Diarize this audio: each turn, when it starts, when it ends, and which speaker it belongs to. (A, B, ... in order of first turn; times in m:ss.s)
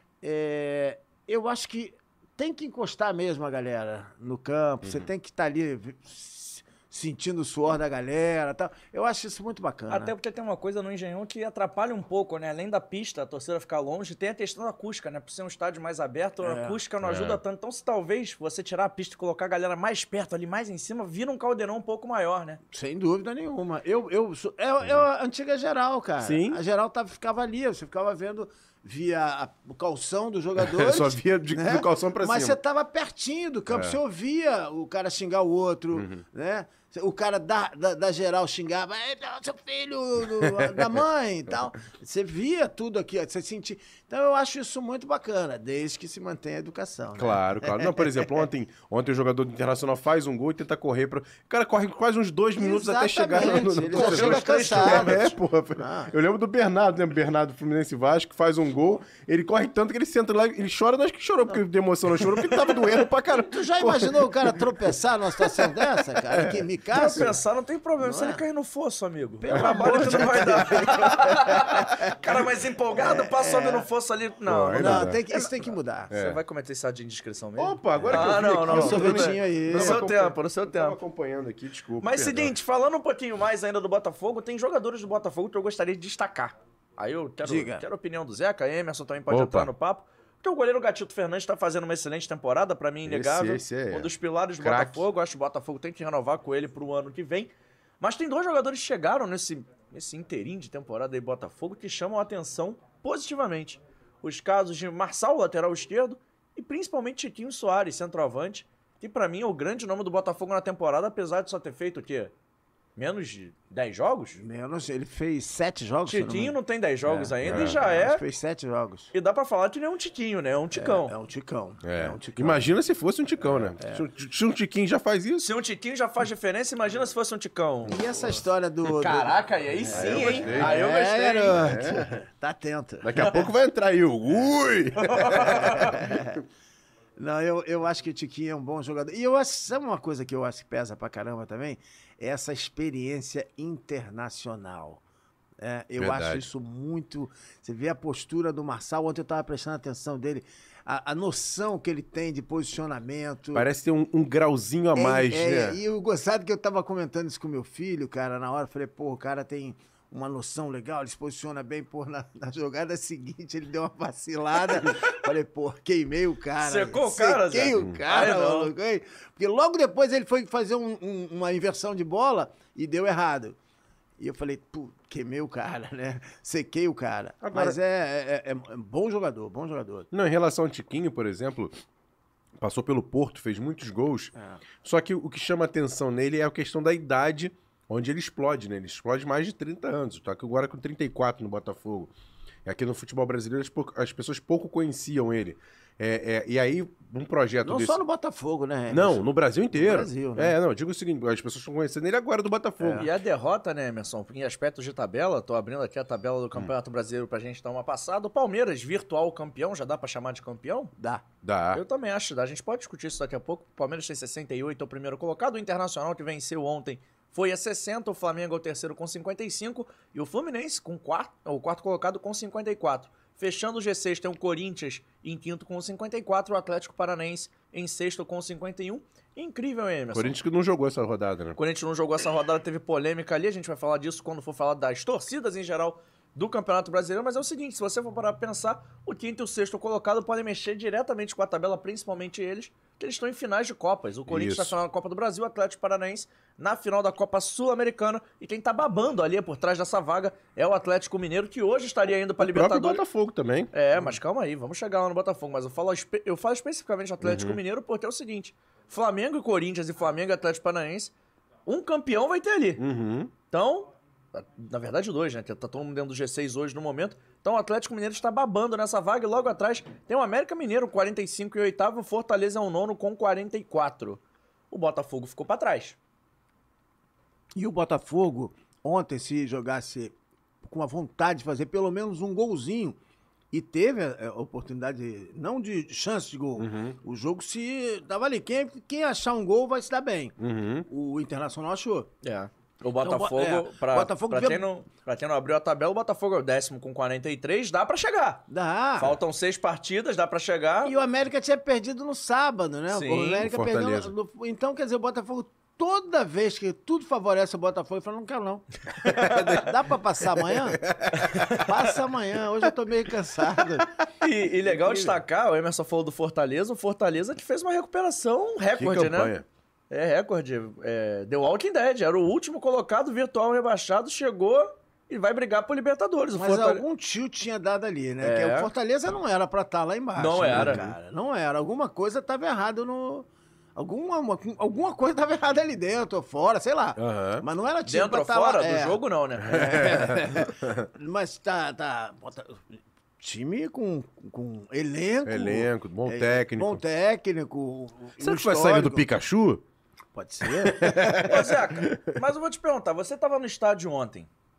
0:00.2-0:10.1 A
0:04.8-0:05.1 B
0:09.9-0:22.6 C
0:16.4-0:16.8 A
0:17.0-0:17.4 B
0:22.7-0:48.4 A
0:26.2-0:26.6 B
0:30.6-0:32.6 B
0:33.7-0:34.0 B
0:35.9-0:36.2 B
0:40.4-0:40.9 B
0:47.2-1:04.7 B
0:52.6-0:56.1 A
0:53.9-0:55.2 C
1:03.3-1:07.4 A
1:05.4-1:07.3 B
1:06.9-1:15.4 C
1:08.0-1:08.4 A
1:09.4-1:12.1 A
1:09.5-1:10.5 B
1:13.0-1:13.9 A
1:14.4-1:15.2 B
1:14.7-1:16.1 A
1:16.1-1:16.4 B
1:16.1-1:21.0 C
1:17.6-1:22.5 B
1:18.1-1:20.0 A
1:22.0-1:52.3 C
1:27.4-1:27.8 A
1:29.3-1:29.7 B
1:33.0-1:35.1 B
1:53.0-1:54.4 C
1:54.4-1:59.1 A
1:56.1-1:58.2 C
1:57.4-1:57.8 B
1:59.1-2:01.1 C
2:00.7-2:02.7 A
2:01.8-2:05.5 B
2:03.4-2:04.0 A
2:05.4-2:11.6 C
2:07.8-2:13.4 A
2:09.9-2:10.8 B
2:11.5-2:12.1 B
2:13.0-2:16.3 B
2:15.0-2:16.0 C
2:15.6-2:16.4 A
2:17.2-2:25.0 A
2:25.6-2:33.7 A
2:26.0-2:26.5 B
2:33.5-2:35.8 B
2:34.9-2:53.6 A
2:46.6-2:48.7 C
2:54.2-3:00.1 A
2:57.4-2:57.8 B
3:00.1-3:01.7 B
3:02.6-3:12.1 B
3:04.4-3:04.6 A
3:12.6-3:18.0 B
3:17.6-3:20.5 A
3:18.9-3:23.1 B
3:22.8-3:23.1 A
3:23.0-3:30.9 C
3:31.0-3:31.2 A
3:31.4-3:31.8 B
3:31.7-3:50.4 C
3:50.1-3:51.6 B
3:51.6-4:13.0 C
4:04.3-4:04.8 B
4:12.4-4:13.7 B
4:13.7-4:21.1 C
4:17.2-4:17.6 B
4:21.6-4:22.8 C
4:22.8-4:23.3 B
4:23.5-4:36.0 C
4:37.6-4:40.1 A
4:40.6-4:43.0 A
4:43.5-4:50.3 A
4:46.6-4:47.0 B
4:50.4-4:50.9 B
4:50.9-4:52.1 A
4:52.2-4:58.4 C
4:53.0-4:54.6 A
4:58.5-4:59.2 A
4:59.0-5:00.9 C
5:00.8-5:10.8 A
5:02.9-5:03.4 C
5:03.4-5:04.1 B
5:09.1-5:09.4 C
5:09.2-5:09.5 B
5:10.5-5:11.2 B
5:11.3-5:11.6 C
5:11.5-5:13.9 A
5:14.2-5:19.3 C
5:14.6-5:15.2 A
5:18.8-5:19.4 B
5:19.9-5:26.8 C
5:26.4-5:42.6 A
5:28.2-5:28.7 C
5:30.2-5:30.8 C
5:30.5-5:31.0 B
5:37.0-5:37.4 B
5:37.8-5:39.8 C
5:39.5-5:40.9 B
5:43.2-5:49.0 A
5:45.2-5:46.8 B
5:48.2-5:49.6 B
5:50.1-5:51.3 A
5:50.6-5:52.0 B
5:51.2-5:54.3 C